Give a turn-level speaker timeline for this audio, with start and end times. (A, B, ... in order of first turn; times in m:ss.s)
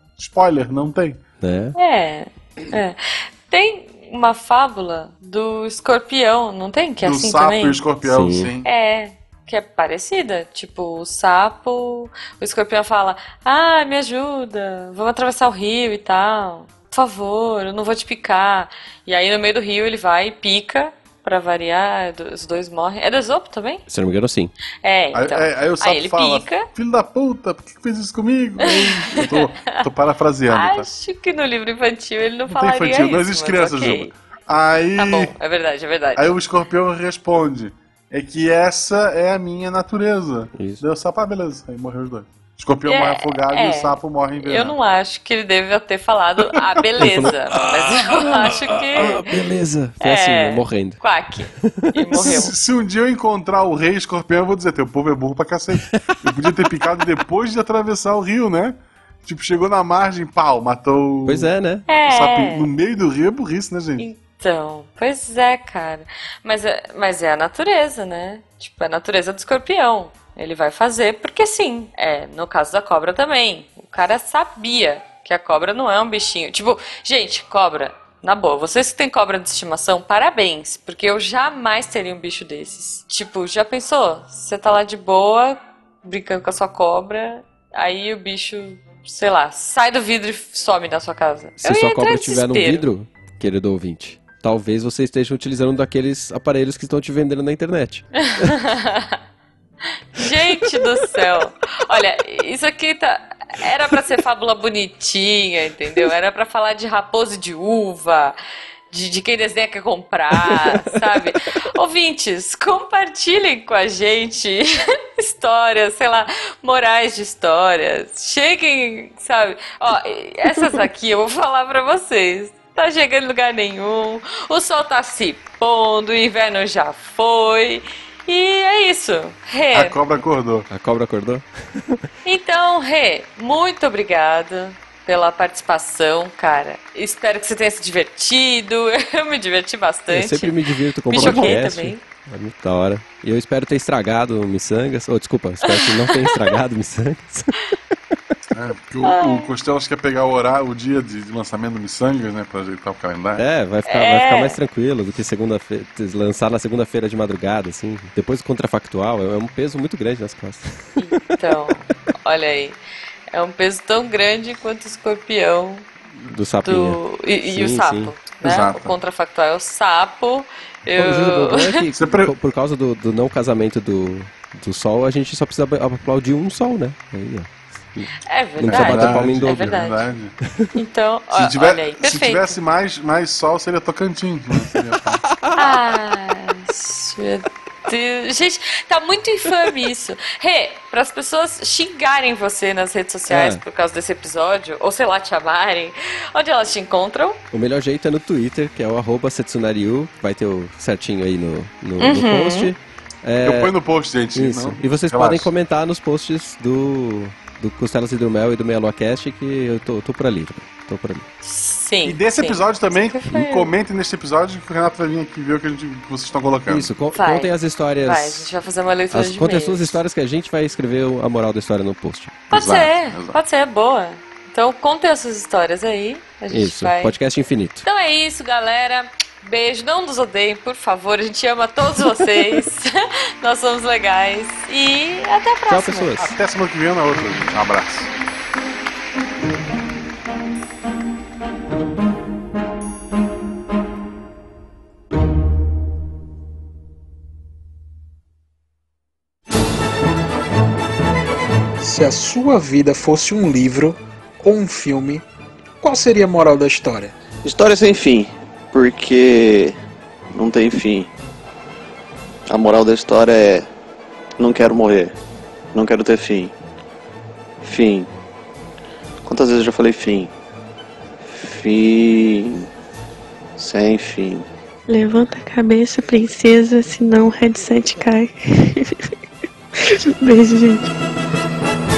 0:00.2-0:01.2 A
0:01.4-0:01.8 B
0:01.8-0:07.8 C
0:07.0-0:08.7 A
0:08.0-0:08.5 B
0:08.6-0:23.8 C
0:23.9-0:24.5 B
0:24.8-0:26.7 C
0:25.1-0:30.9 A
0:28.6-0:29.9 C
0:30.5-0:34.1 C
0:32.5-0:35.3 A
0:35.0-0:36.4 C
0:36.2-0:44.8 A
0:40.6-0:40.8 B
0:42.9-0:49.3 C
0:46.5-0:52.3 B
0:50.0-0:52.5 C
0:52.1-1:04.1 A
0:55.8-0:56.7 B
1:01.3-1:01.9 B
1:01.9-1:02.7 C
1:04.0-1:32.9 C
1:31.6-1:38.6 B
1:38.2-1:39.2 C
1:40.2-1:48.4 C
1:40.2-1:40.9 B
1:48.9-2:10.0 C
1:50.5-1:51.4 B
2:09.7-2:10.7 A
2:10.7-2:12.1 B
2:12.2-2:22.0 C
2:20.1-2:27.7 B
2:21.2-2:21.5 A
2:25.7-2:26.4 C
2:28.5-2:33.4 A
2:29.0-2:29.5 C
2:33.4-2:41.1 B
2:33.9-2:34.6 C
2:41.0-2:42.8 C
2:43.3-2:45.9 C
2:46.2-2:48.2 B
2:46.6-2:51.9 C
2:48.4-2:49.0 A
2:51.0-2:59.8 B
2:52.0-2:52.3 A
2:58.3-3:00.1 C
2:58.7-3:00.4 A
3:00.5-3:00.8 B
3:00.7-3:02.6 C
3:01.3-3:05.3 A
3:05.3-3:05.7 B
3:05.6-3:17.4 C
3:13.3-3:13.6 B
3:17.5-3:23.7 B
3:22.0-3:22.7 C
3:23.4-3:25.5 A
3:24.4-3:31.3 B
3:31.4-3:33.7 C
3:32.0-3:36.9 A
3:36.7-3:38.5 B
3:37.1-3:37.5 C
3:38.0-3:40.0 C
3:39.1-3:42.5 B
3:42.5-3:43.4 A
3:42.5-3:47.2 C
3:46.5-3:47.8 B
3:47.8-3:56.1 C
3:55.7-3:56.4 B
3:56.2-3:58.1 A
4:11.8-4:15.2 D
4:15.8-4:17.2 D
4:17.4-4:19.8 E
4:20.3-4:21.1 E
4:22.5-4:23.7 E
4:24.4-4:25.2 E
4:25.7-4:26.6 E
4:27.6-4:28.1 E
4:29.2-4:30.3 E
4:31.2-4:32.7 E
4:33.6-4:34.5 E
4:34.9-4:39.0 F
4:39.9-4:40.9 F